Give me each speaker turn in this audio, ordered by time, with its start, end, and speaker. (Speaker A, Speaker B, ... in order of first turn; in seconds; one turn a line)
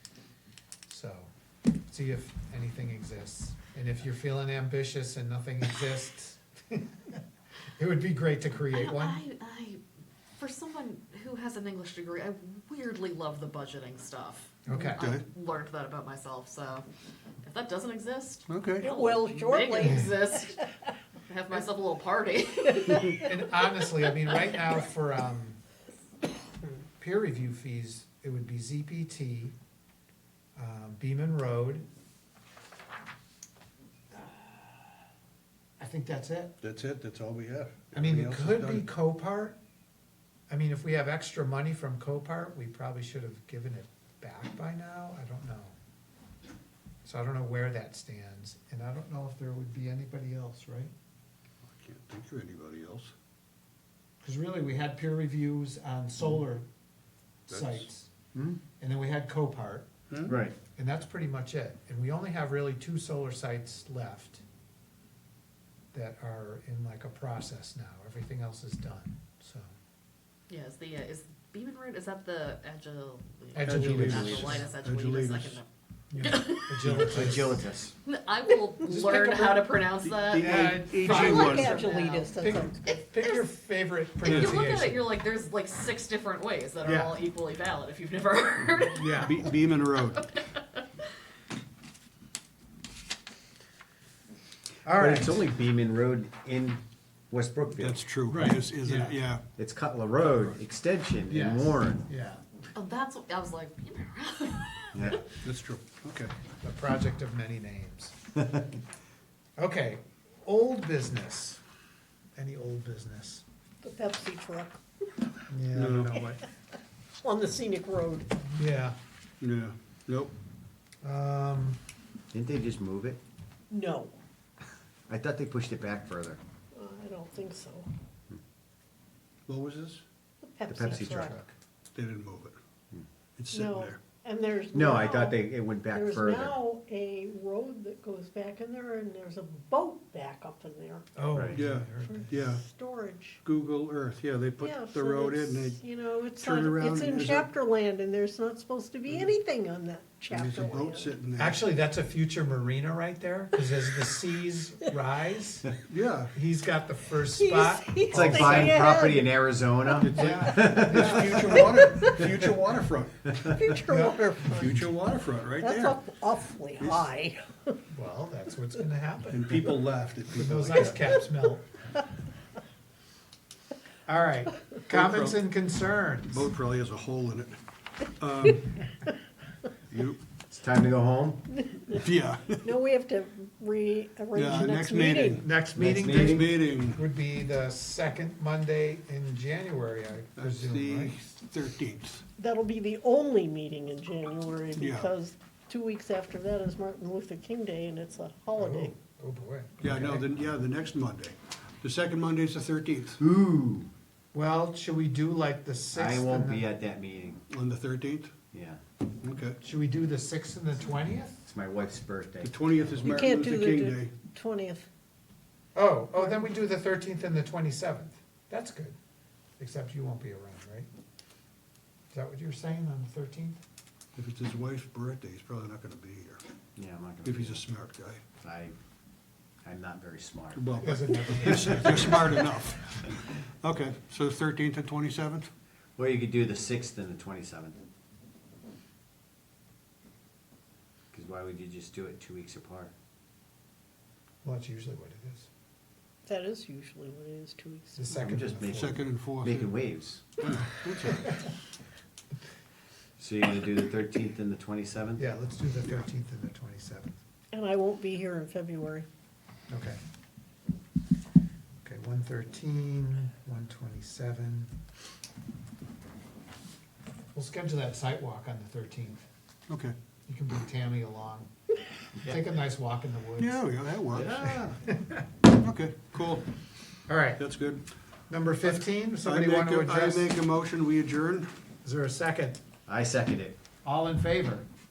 Speaker A: 0.9-1.3
Speaker A: 1.9-7.2
Speaker A: 7.8-9.2
Speaker B: 8.7-9.8
Speaker B: 10.3-16.8
Speaker A: 14.7-15.0
Speaker C: 14.8-15.2
Speaker B: 17.4-20.6
Speaker C: 18.5-18.9
Speaker D: 18.8-20.6
Speaker A: 19.8-20.1
Speaker B: 21.2-23.3
Speaker D: 22.9-23.2
Speaker A: 23.1-25.6
Speaker A: 27.0-29.5
Speaker A: 30.6-31.8
Speaker A: 34.1-34.8
Speaker A: 35.8-36.5
Speaker C: 36.6-38.9
Speaker A: 37.9-39.6
Speaker A: 40.5-45.7
Speaker A: 47.0-50.9
Speaker C: 51.6-53.1
Speaker A: 54.2-56.7
Speaker A: 57.5-58.1
Speaker C: 57.5-57.9
Speaker E: 58.3-58.6
Speaker A: 58.8-59.9
Speaker E: 60.3-60.5
Speaker A: 60.6-64.4
Speaker A: 65.9-69.7
Speaker B: 70.5-75.7
Speaker A: 73.5-74.7
Speaker C: 73.6-75.6
Speaker A: 76.1-77.6
Speaker B: 76.2-77.0
Speaker C: 76.8-77.6
Speaker E: 77.1-77.9
Speaker B: 78.0-82.3
Speaker A: 78.9-79.7
Speaker C: 80.0-81.7
Speaker A: 80.4-81.8
Speaker D: 81.0-83.0
Speaker A: 82.4-85.0
Speaker B: 84.2-89.3
Speaker C: 84.2-84.5
Speaker A: 86.8-87.2
Speaker A: 88.9-89.4
Speaker C: 89.2-90.2
Speaker B: 90.3-90.8
Speaker A: 94.8-95.4
Speaker E: 94.9-98.0
Speaker C: 97.8-99.4
Speaker A: 98.3-99.2
Speaker E: 99.6-102.1
Speaker A: 101.3-102.4
Speaker B: 102.7-105.3
Speaker E: 104.9-105.2
Speaker C: 105.3-106.3
Speaker A: 106.6-108.1
Speaker A: 109.6-111.6
Speaker A: 112.3-113.4
Speaker D: 113.8-114.8
Speaker A: 115.5-116.4
Speaker C: 115.7-116.2
Speaker D: 117.2-118.5
Speaker A: 118.6-119.0
Speaker C: 119.4-120.3
Speaker A: 121.0-121.8
Speaker E: 122.3-123.2
Speaker D: 123.7-124.2
Speaker E: 125.1-126.4
Speaker D: 126.7-127.9
Speaker C: 129.5-130.0
Speaker D: 130.4-131.5
Speaker E: 130.7-131.4
Speaker A: 131.0-131.5
Speaker C: 131.9-132.6
Speaker C: 133.4-134.0
Speaker D: 133.5-141.1
Speaker E: 134.7-136.6
Speaker A: 141.2-142.3
Speaker E: 141.3-141.6
Speaker C: 141.5-142.6
Speaker D: 142.0-143.4
Speaker C: 143.4-145.8
Speaker D: 144.6-151.2
Speaker C: 146.4-147.5
Speaker C: 150.3-151.6
Speaker A: 151.4-155.7
Speaker C: 155.9-156.3
Speaker A: 156.3-158.7
Speaker D: 157.2-159.3
Speaker E: 158.1-161.4
Speaker D: 159.9-162.2
Speaker C: 159.9-163.5
Speaker A: 160.1-161.6
Speaker D: 163.5-164.8
Speaker A: 163.9-164.2
Speaker C: 164.5-166.0
Speaker D: 165.6-167.8
Speaker C: 166.8-167.1
Speaker A: 167.9-169.7
Speaker C: 169.3-171.1
Speaker A: 170.3-171.8
Speaker A: 174.1-176.5
Speaker C: 174.9-175.4
Speaker C: 176.3-177.5
Speaker C: 178.2-178.8
Speaker C: 179.9-180.2
Speaker E: 180.5-181.4
Speaker D: 181.6-182.0
Speaker C: 181.9-182.6
Speaker D: 182.6-185.5
Speaker C: 184.3-185.4
Speaker A: 185.4-191.1
Speaker E: 185.7-186.5
Speaker C: 186.1-187.0
Speaker C: 190.4-192.2
Speaker D: 192.4-198.9
Speaker C: 194.8-195.1
Speaker A: 198.6-200.3
Speaker C: 199.8-203.2
Speaker E: 203.2-203.9
Speaker A: 204.3-206.7
Speaker E: 205.9-207.4
Speaker C: 207.5-208.3
Speaker E: 208.5-208.8
Speaker C: 209.2-209.6
Speaker A: 209.6-211.4
Speaker E: 211.4-213.1
Speaker C: 212.4-214.1
Speaker D: 213.0-214.9
Speaker A: 215.7-218.9
Speaker A: 219.6-220.9
Speaker A: 222.1-223.6
Speaker C: 224.2-226.4
Speaker E: 226.8-227.6
Speaker C: 227.2-228.2
Speaker E: 228.4-228.7
Speaker E: 229.6-231.2
Speaker C: 230.5-235.5
Speaker A: 230.8-232.6
Speaker E: 235.9-237.8
Speaker E: 241.1-242.9
Speaker A: 244.4-245.5
Speaker D: 246.2-248.1
Speaker A: 247.9-249.0
Speaker E: 248.1-250.4
Speaker C: 248.6-249.7
Speaker C: 250.4-251.3
Speaker E: 253.2-255.2
Speaker A: 255.2-257.1
Speaker D: 257.5-259.1
Speaker A: 259.7-260.0
Speaker A: 261.8-264.7
Speaker A: 267.3-269.2
Speaker C: 269.7-269.9
Speaker A: 270.3-271.5
Speaker A: 272.2-273.6
Speaker C: 273.4-274.5
Speaker E: 274.1-274.8
Speaker A: 274.5-275.2
Speaker C: 275.5-276.5
Speaker A: 277.1-277.4
Speaker C: 277.4-277.8
Speaker A: 278.3-280.3
Speaker C: 278.6-281.5
Speaker A: 281.8-282.6
Speaker E: 282.9-283.6
Speaker A: 283.8-284.6